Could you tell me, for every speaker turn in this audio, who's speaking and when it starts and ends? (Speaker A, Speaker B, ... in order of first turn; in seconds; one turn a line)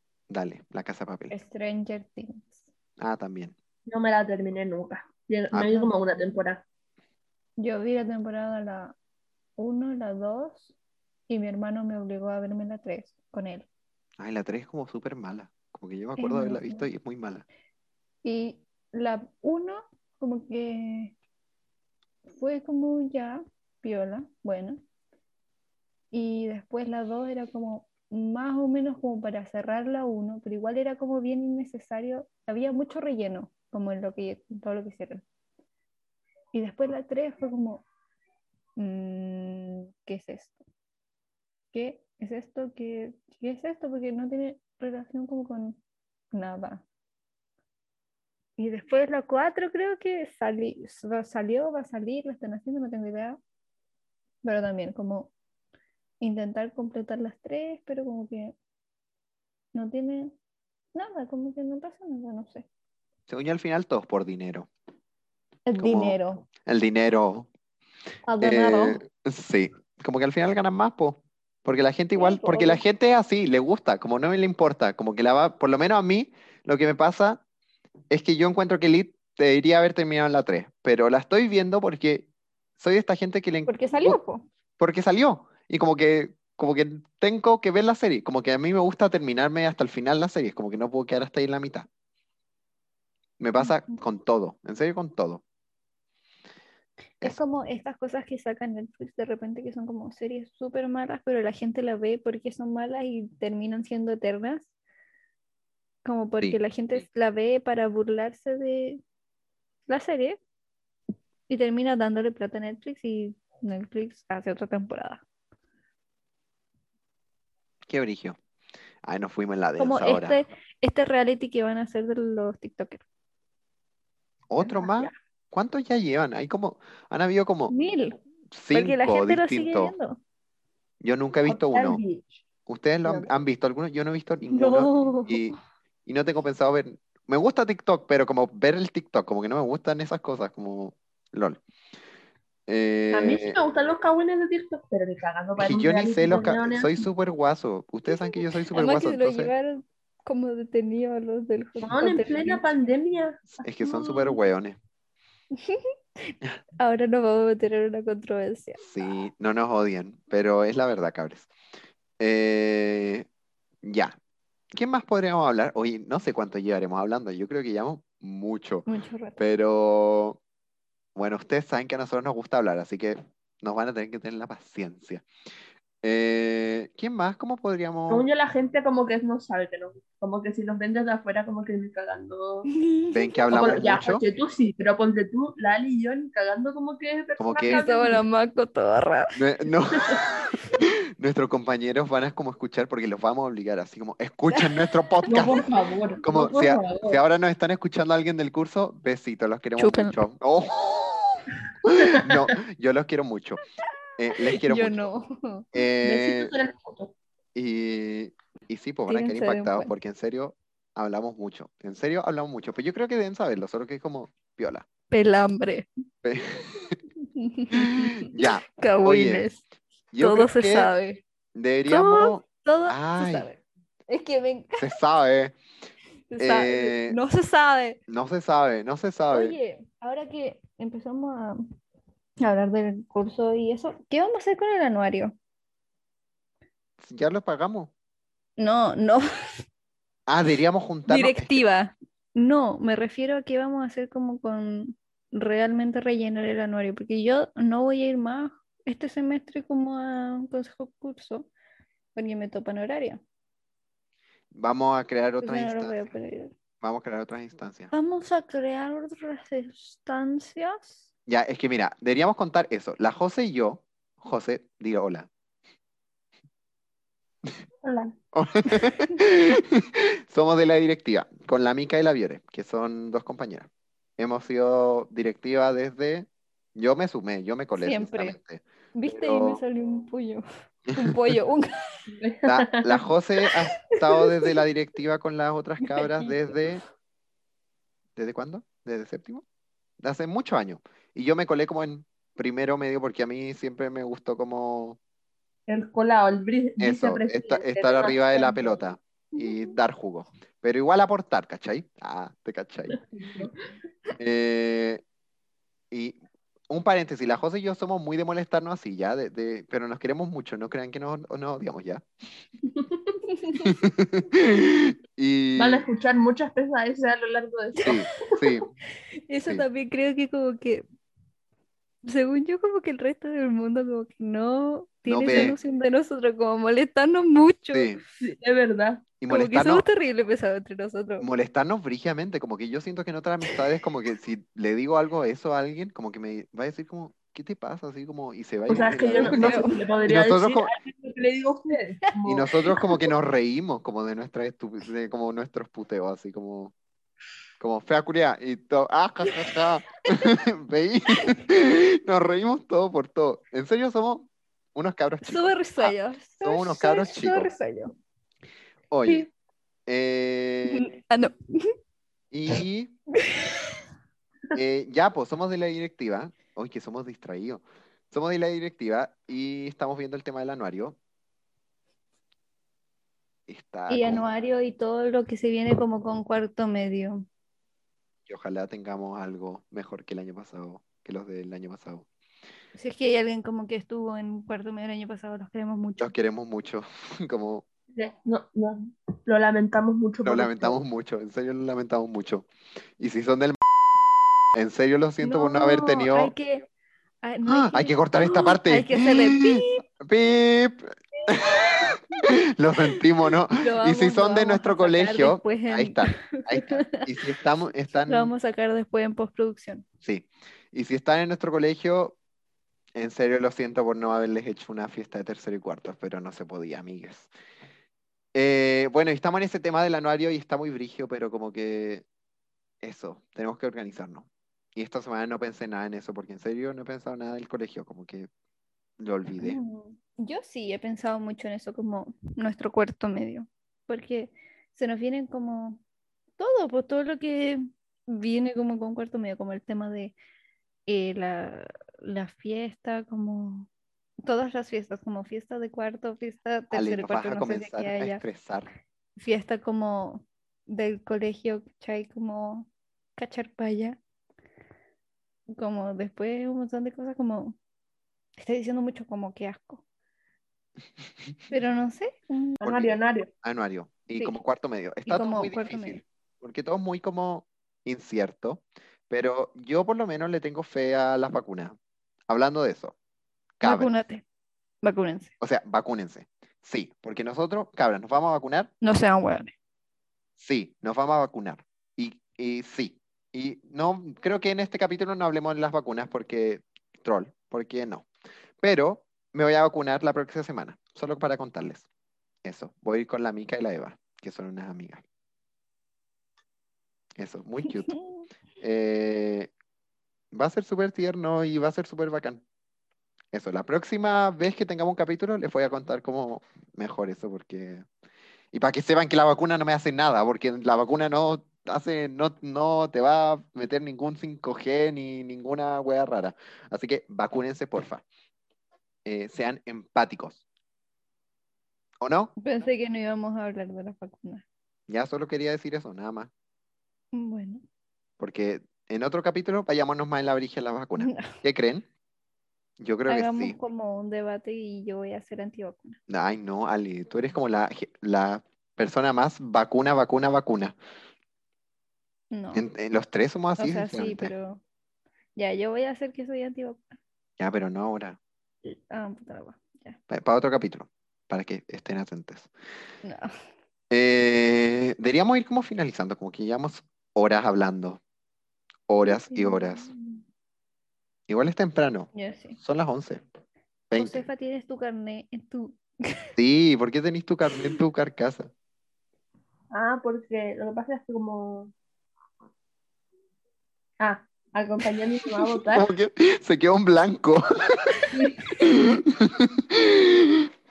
Speaker A: 0.3-1.3
Speaker B: 1.3-2.6
Speaker A: 3.0-3.5
Speaker C: 3.9-6.6
Speaker B: 5.6-5.9
Speaker B: 7.6-8.9
Speaker B: 9.6-10.7
Speaker B: 11.3-13.7
Speaker A: 14.2-17.4
Speaker B: 16.2-16.9
Speaker B: 18.2-21.1
Speaker B: 22.3-24.8
Speaker B: 26.1-35.2
Speaker B: 36.5-37.8
Speaker B: 38.8-40.6
Speaker B: 41.7-45.8
Speaker B: 46.3-46.8
Speaker B: 48.6-53.4
Speaker B: 54.4-55.3
Speaker B: 56.2-58.5
Speaker B: 59.7-60.3
Speaker B: 60.9-62.6
Speaker A: 63.3-64.7
Speaker B: 65.7-66.4
Speaker A: 65.8-67.5
Speaker B: 68.3-69.0
Speaker A: 68.4-77.4
Speaker B: 72.2-72.8
Speaker A: 78.1-84.2
Speaker B: 83.7-84.5
Speaker A: 84.8-91.9
Speaker A: 93.4-95.4
Speaker B: 93.6-93.9
Speaker B: 97.2-104.7
Speaker B: 106.0-109.0
Speaker B: 109.9-110.4
Speaker B: 111.5-115.2
Speaker A: 117.9-118.4
Speaker A: 119.0-120.4
Speaker B: 119.8-123.0
Speaker A: 124.5-127.7
Speaker C: 124.6-125.1
Speaker B: 127.7-128.2
Speaker A: 128.5-129.9
Speaker B: 128.7-130.2
Speaker A: 131.0-132.0
Speaker C: 131.4-132.3
Speaker A: 132.7-135.5
Speaker B: 134.5-135.5
Speaker A: 136.1-141.6
Speaker A: 142.7-143.6
Speaker C: 143.1-147.0
Speaker A: 145.6-149.5
Speaker B: 148.1-152.6
Speaker C: 151.8-154.3
Speaker A: 153.6-154.8
Speaker B: 155.5-158.8
Speaker A: 158.8-161.5
Speaker A: 162.2-163.3
Speaker A: 163.8-164.1
Speaker A: 164.7-168.9
Speaker B: 168.8-169.4
Speaker A: 169.4-170.4
Speaker A: 171.1-175.2
Speaker A: 176.0-178.3
Speaker C: 178.1-182.7
Speaker B: 182.7-183.4
Speaker A: 183.1-184.2
Speaker C: 183.5-188.2
Speaker A: 187.4-187.8
Speaker B: 187.7-189.4
Speaker A: 189.3-195.7
Speaker B: 194.5-195.6
Speaker C: 195.3-197.2
Speaker A: 196.2-201.2
Speaker B: 199.8-200.2
Speaker A: 201.9-203.6
Speaker C: 201.9-202.5
Speaker A: 204.2-205.0
Speaker B: 204.5-205.7
Speaker A: 205.7-206.5
Speaker C: 206.0-207.1
Speaker A: 207.5-214.8
Speaker B: 209.1-209.9
Speaker B: 215.1-215.9
Speaker A: 216.2-216.9
Speaker B: 217.2-219.6
Speaker A: 217.7-219.5
Speaker A: 220.1-220.9
Speaker B: 220.2-221.2
Speaker A: 221.5-223.5
Speaker B: 221.9-224.9
Speaker A: 224.8-225.6
Speaker B: 226.3-228.0
Speaker A: 226.4-227.2
Speaker A: 228.1-229.5
Speaker B: 229.3-231.6
Speaker B: 232.4-235.3
Speaker A: 237.0-237.9
Speaker B: 238.6-239.2
Speaker A: 240.3-241.6
Speaker B: 241.1-251.5
Speaker B: 252.1-253.2
Speaker A: 254.5-256.1
Speaker B: 255.4-256.5
Speaker A: 256.8-257.9
Speaker B: 257.9-261.1
Speaker A: 261.3-265.3
Speaker C: 267.8-268.1
Speaker A: 268.3-279.6
Speaker B: 277.8-278.4
Speaker B: 278.9-282.0
Speaker A: 280.9-281.3
Speaker C: 282.1-283.0
Speaker A: 282.5-286.8
Speaker B: 285.8-286.4
Speaker A: 288.1-289.4
Speaker A: 290.0-295.0
Speaker C: 295.7-298.8
Speaker A: 296.8-303.0
Speaker C: 302.9-303.5
Speaker A: 304.2-305.0
Speaker A: 305.9-306.2
Speaker A: 306.7-312.0
Speaker C: 312.6-313.2
Speaker A: 313.6-315.9
Speaker C: 315.6-318.5
Speaker A: 317.8-318.7
Speaker B: 319.3-320.8
Speaker B: 322.0-328.0
Speaker A: 325.1-325.6
Speaker A: 327.7-328.0
Speaker C: 328.2-329.0
Speaker A: 329.2-329.8
Speaker B: 329.3-331.3
Speaker A: 331.2-340.7
Speaker C: 338.7-342.5
Speaker B: 339.1-339.8
Speaker A: 342.2-346.7
Speaker B: 342.7-343.0
Speaker A: 347.6-357.5
Speaker B: 351.2-351.4
Speaker B: 355.2-357.9
Speaker A: 358.9-359.3
Speaker A: 359.9-360.9
Speaker B: 360.7-361.7
Speaker A: 362.3-362.9
Speaker B: 363.2-363.7
Speaker A: 364.5-371.0
Speaker A: 373.5-374.3
Speaker B: 373.9-377.2
Speaker A: 378.3-382.1
Speaker B: 382.7-386.1
Speaker A: 386.0-387.6
Speaker C: 387.9-390.8
Speaker A: 390.2-393.6
Speaker A: 394.5-396.3
Speaker B: 395.2-396.7
Speaker B: 397.2-399.8
Speaker A: 397.4-401.9
Speaker B: 401.2-401.9
Speaker A: 402.6-408.3
Speaker B: 403.6-407.1
Speaker B: 408.1-409.9
Speaker A: 410.0-412.2
Speaker A: 412.9-417.3
Speaker A: 418.3-422.0
Speaker A: 422.8-428.3
Speaker A: 429.0-429.6
Speaker B: 429.4-435.8
Speaker B: 436.4-440.1
Speaker B: 440.9-443.7
Speaker B: 444.2-448.2
Speaker A: 446.7-448.7
Speaker B: 449.2-454.0
Speaker B: 455.5-457.6
Speaker B: 458.4-459.8
Speaker B: 461.5-462.6
Speaker C: 462.6-463.3
Speaker A: 462.6-471.8
Speaker B: 465.1-466.0
Speaker A: 472.3-472.9
Speaker A: 473.6-473.9
Speaker B: 473.6-474.2
Speaker B: 474.8-475.3
Speaker A: 475.4-478.7
Speaker B: 478.8-479.5
Speaker A: 480.4-488.1
Speaker A: 488.6-491.9
Speaker A: 492.4-495.0
Speaker A: 497.2-497.9
Speaker B: 497.7-498.3
Speaker A: 498.6-499.5
Speaker A: 500.3-502.4
Speaker A: 503.3-507.9
Speaker A: 508.5-518.0
Speaker A: 519.0-520.4
Speaker A: 522.0-522.3
Speaker B: 522.4-524.4
Speaker A: 524.9-526.3
Speaker B: 527.1-527.6
Speaker A: 528.2-531.9
Speaker B: 531.0-531.3
Speaker A: 532.8-533.5
Speaker B: 533.1-536.0
Speaker A: 536.1-540.8
Speaker B: 542.3-542.6
Speaker A: 542.5-544.3
Speaker B: 543.6-544.6
Speaker B: 545.4-546.9
Speaker A: 547.4-548.2
Speaker B: 548.6-550.0
Speaker A: 550.1-552.5
Speaker B: 553.0-553.3
Speaker A: 553.9-558.0
Speaker A: 558.9-559.9
Speaker B: 559.0-560.2
Speaker A: 561.3-563.2
Speaker B: 562.1-562.6
Speaker A: 563.9-564.2
Speaker B: 563.9-566.2
Speaker A: 566.4-568.5
Speaker C: 569.7-571.7
Speaker C: 574.0-575.9
Speaker A: 575.7-580.5
Speaker C: 578.1-578.4